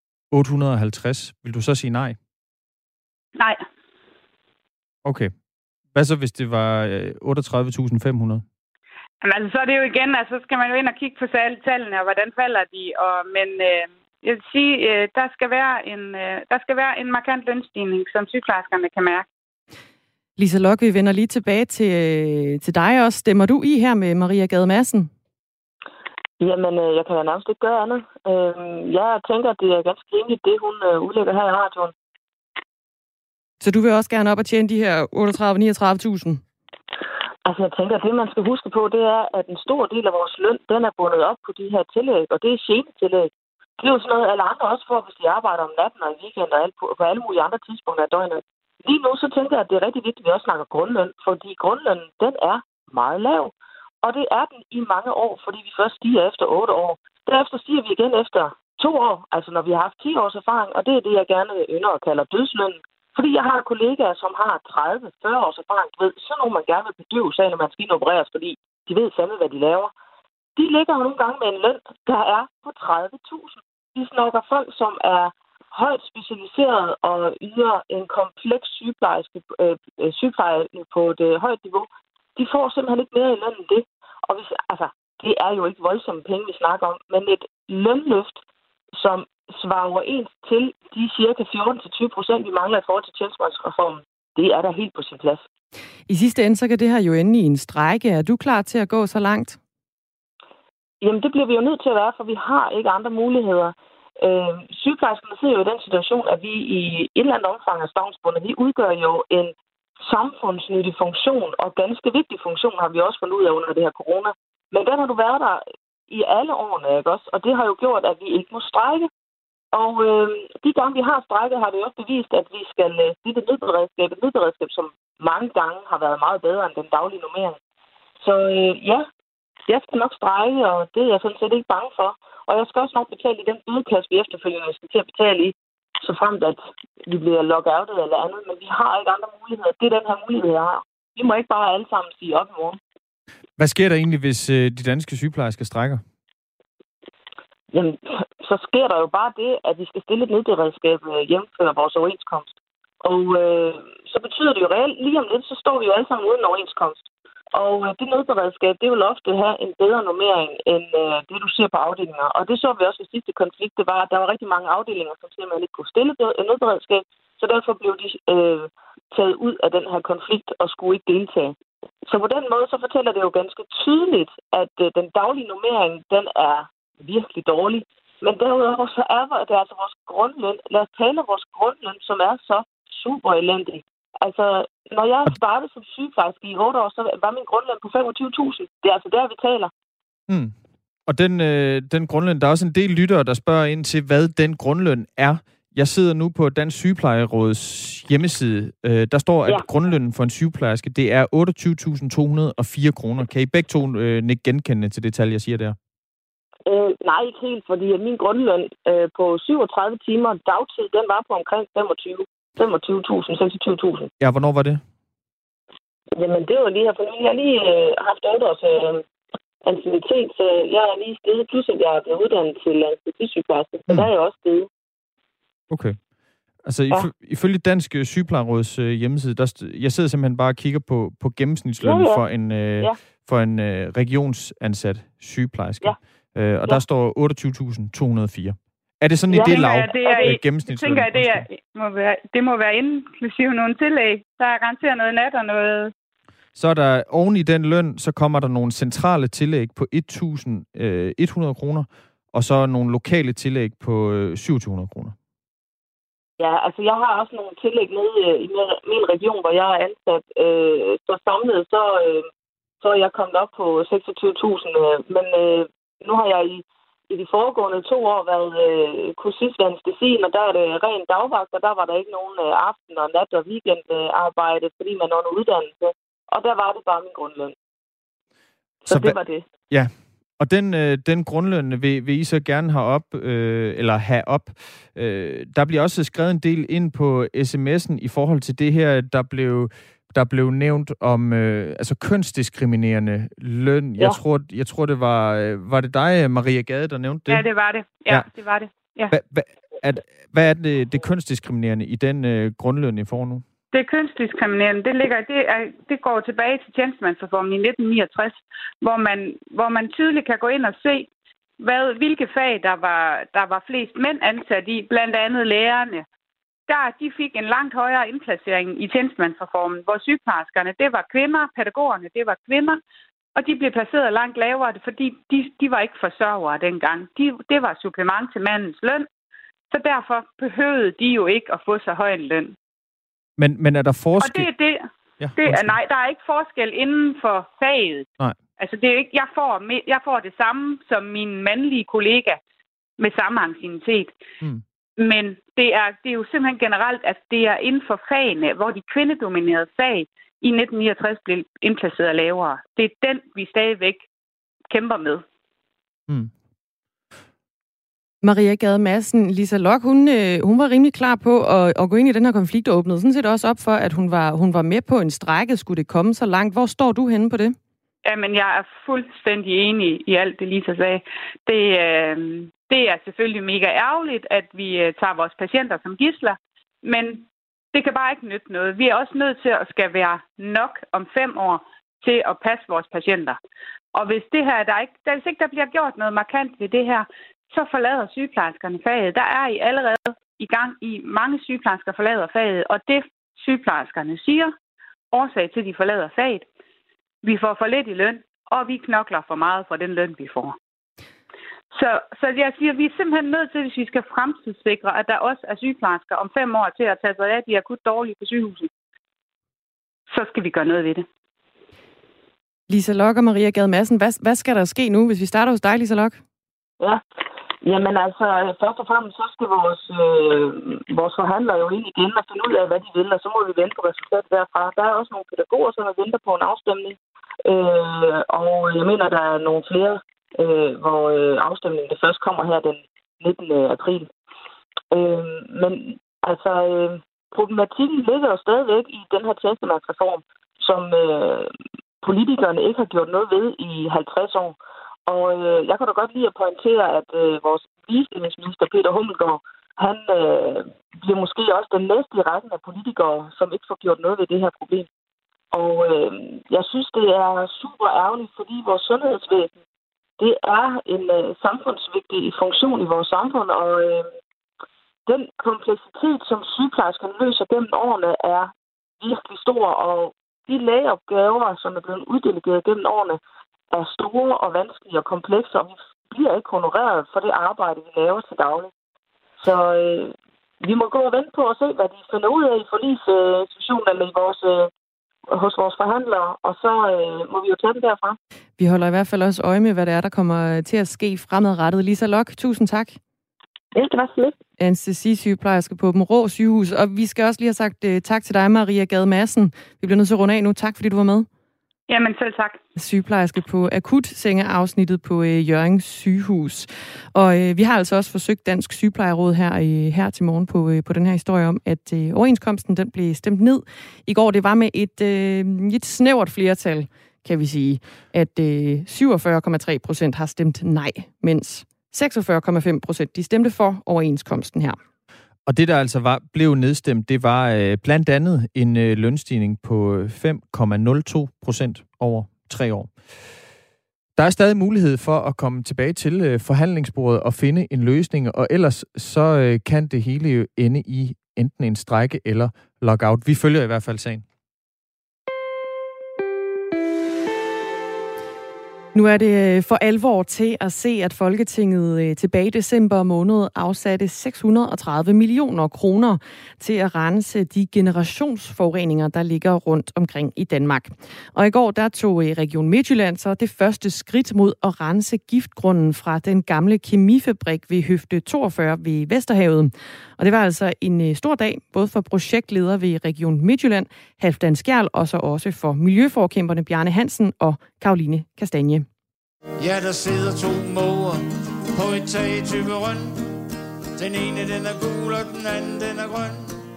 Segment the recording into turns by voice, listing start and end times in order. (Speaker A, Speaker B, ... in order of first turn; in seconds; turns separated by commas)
Speaker A: 0.3-2.2, Speaker B: 3.4-3.6, Speaker A: 5.0-5.3, Speaker A: 6.0-8.4, Speaker B: 9.2-19.3, Speaker C: 20.4-25.1, Speaker D: 26.4-31.9, Speaker C: 33.6-36.4, Speaker D: 37.5-69.9, Speaker D: 70.6-88.4, Speaker D: 89.0-95.4, Speaker C: 96.1-99.6, Speaker D: 101.0-109.5, Speaker D: 110.1-119.1, Speaker D: 119.7-127.6, Speaker D: 128.2-129.1, Speaker D: 129.7-142.8, Speaker A: 143.6-146.0, Speaker D: 147.7-152.5, Speaker D: 153.0-171.6, Speaker D: 172.1-189.7, Speaker A: 190.3-190.5, Speaker A: 191.1-205.8, Speaker D: 206.7-214.1, Speaker A: 214.2-214.8, Speaker D: 216.2-219.1, Speaker D: 219.7-224.7, Speaker A: 225.7-226.0, Speaker A: 226.6-241.5, Speaker D: 231.8-232.2, Speaker D: 239.3-240.4, Speaker B: 239.4-245.9, Speaker A: 246.6-255.2, Speaker D: 256.4-262.3, Speaker D: 262.8-277.6, Speaker D: 278.9-279.4, Speaker A: 278.9-279.2, Speaker A: 279.7-297.5, Speaker B: 297.3-299.1, Speaker A: 299.1-303.4, Speaker B: 303.7-316.1, Speaker B: 316.7-322.8, Speaker B: 323.4-329.1, Speaker B: 329.7-332.6, Speaker A: 333.4-334.5, Speaker B: 334.2-338.1, Speaker A: 335.2-335.8, Speaker B: 338.6-342.4, Speaker B: 343.0-344.2, Speaker B: 345.0-354.1, Speaker B: 354.7-355.2, Speaker A: 356.1-356.3, Speaker C: 358.2-367.6, Speaker B: 368.1-383.4, Speaker B: 383.9-394.5, Speaker B: 395.1-396.4, Speaker B: 397.2-400.6, Speaker B: 401.7-408.7, Speaker B: 410.1-411.1, Speaker C: 412.7-416.2, Speaker D: 417.6-434.1, Speaker D: 434.9-441.5, Speaker D: 442.0-444.6, Speaker D: 445.1-454.9, Speaker D: 455.5-459.6, Speaker D: 460.2-464.1, Speaker D: 465.1-473.2, Speaker D: 473.7-478.7, Speaker D: 479.4-484.7, Speaker D: 485.3-488.2, Speaker C: 488.6-493.0, Speaker D: 493.8-494.3, Speaker C: 494.6-501.3, Speaker B: 501.9-502.6, Speaker C: 502.8-524.8, Speaker A: 525.5-533.0, Speaker A: 534.2-544.2, Speaker C: 548.9-578.9, Speaker E: 579.6-583.2, Speaker E: 584.0-586.5